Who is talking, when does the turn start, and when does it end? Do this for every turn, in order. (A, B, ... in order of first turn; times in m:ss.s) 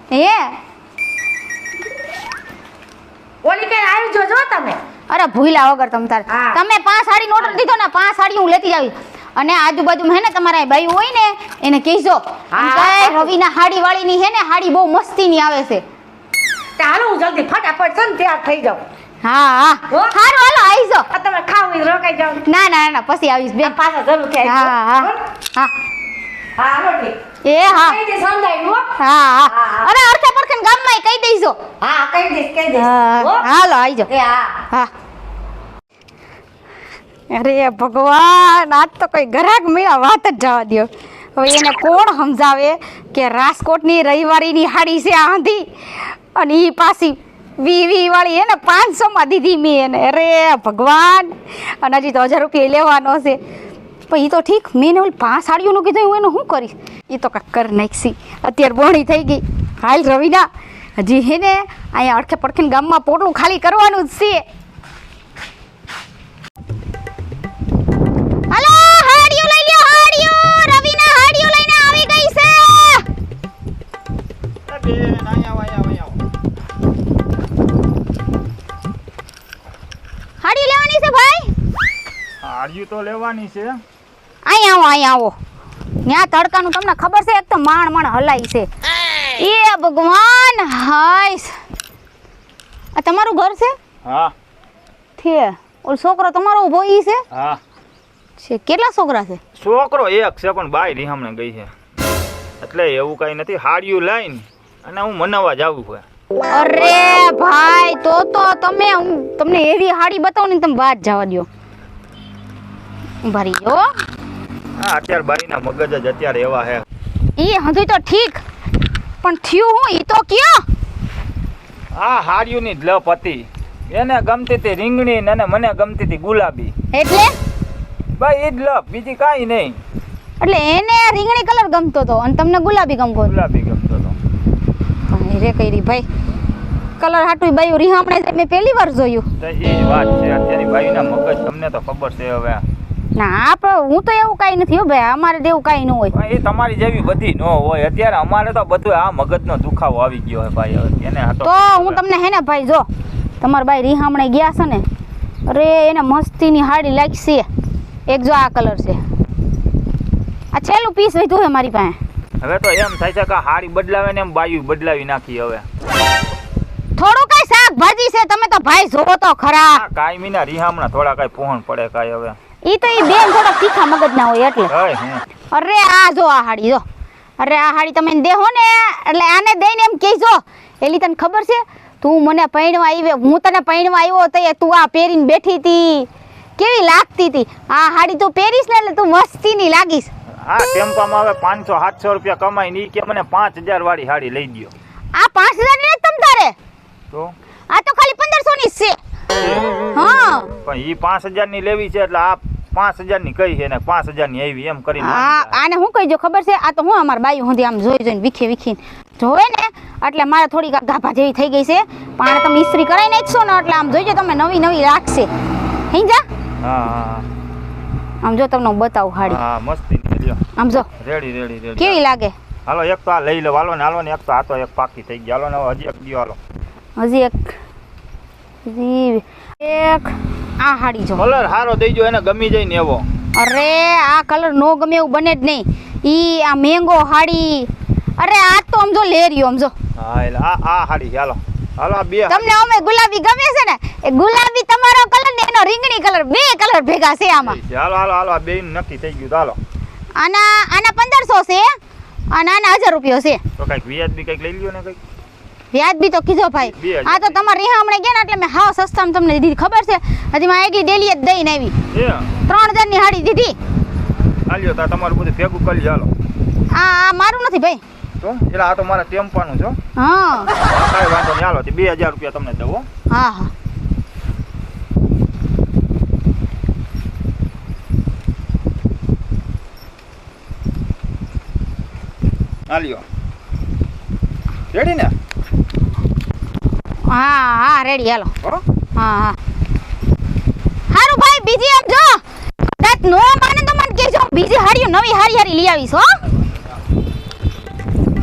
0:00.1-0:00.6 A
0:03.4-0:04.8 B
0:05.1-0:15.8 A
0:06.3-0:06.6 B
0:12.5-0:13.3 B
0:16.8-0:18.8 B
0:19.2-0:21.1 A
0:21.1-0:22.4 B
0:22.4-0:23.8 A
0:23.6-0:25.2 B
0:24.4-0:25.7 A
0:26.6-0:27.2 B
0:27.4-0:28.0 A
0:27.8-0:28.9 B
0:29.0-0:31.6 A
0:29.5-0:29.9 B
0:31.8-0:33.5 B
0:32.8-0:34.1 A
0:34.1-0:34.6 B
0:37.3-0:45.6 A
0:46.4-0:53.4 A
0:54.1-1:04.4 A
1:08.5-1:13.1 A
1:14.7-1:16.2 C
1:20.4-1:21.5 A
1:22.4-1:23.8 C
1:24.5-1:25.3 A
1:26.1-1:28.7 A
1:29.4-1:31.6 A
1:33.0-1:33.8 A
1:34.0-1:34.3 C
1:35.2-1:37.2 A
1:37.3-1:37.6 C
1:38.4-1:39.4 A
1:39.6-1:41.7 C
1:42.6-1:46.0 C
1:46.5-1:51.5 A
1:53.2-1:53.9 A
1:54.8-1:56.8 C
1:57.4-1:58.4 A
1:59.2-2:00.6 A
2:01.9-2:06.7 C
2:06.9-2:07.3 A
2:08.2-2:09.8 C
2:10.4-2:13.3 A
2:13.3-2:14.2 C
2:15.1-2:16.0 A
2:17.0-2:19.2 A
2:19.4-2:22.6 C
2:23.2-2:26.1 A
2:26.1-2:32.0 C
2:31.4-2:32.9 A
2:33.4-2:34.8 A
2:35.5-2:37.5 A
2:38.1-2:39.0 A
2:40.5-2:42.0 A
2:42.4-2:45.6 C
2:47.0-2:49.8 A
2:49.7-2:52.4 C
2:52.7-2:54.7 A
2:54.7-2:55.2 C
2:55.5-2:56.8 A
2:57.4-3:10.1 A
3:10.5-3:14.7 C
3:15.2-3:16.6 A
3:17.7-3:19.0 A
3:19.4-3:19.7 C
3:20.0-3:20.5 A
3:20.6-3:25.6 C
3:25.0-3:35.3 A
3:35.9-3:36.2 A
3:36.6-3:37.2 C
3:38.2-3:39.4 A
3:39.2-3:40.4 C
3:40.6-3:40.9 A
3:41.0-3:42.0 C
3:41.8-3:42.3 A
3:42.7-3:46.4 C
3:47.0-3:47.5 A
3:48.6-3:51.2 A
3:51.2-3:53.0 C
3:53.4-3:59.7 A
4:00.0-4:02.5 C
4:02.3-4:07.6 A
4:07.4-4:09.6 C
4:10.2-4:11.7 A
4:12.3-4:13.4 A
4:13.6-4:15.0 C
4:15.7-4:21.7 A
4:16.7-4:17.4 C
4:21.9-4:22.3 C
4:22.5-4:23.6 A
4:24.5-4:26.1 C
4:26.7-4:27.8 A
4:28.2-4:29.8 C
4:30.0-4:30.5 A
4:30.6-4:32.9 C
4:33.1-4:33.5 A
4:42.7-4:43.0 C
4:44.7-4:45.1 C
4:47.1-4:48.3 A
4:49.0-4:49.4 A
4:50.9-4:52.2 A
4:52.8-4:56.2 A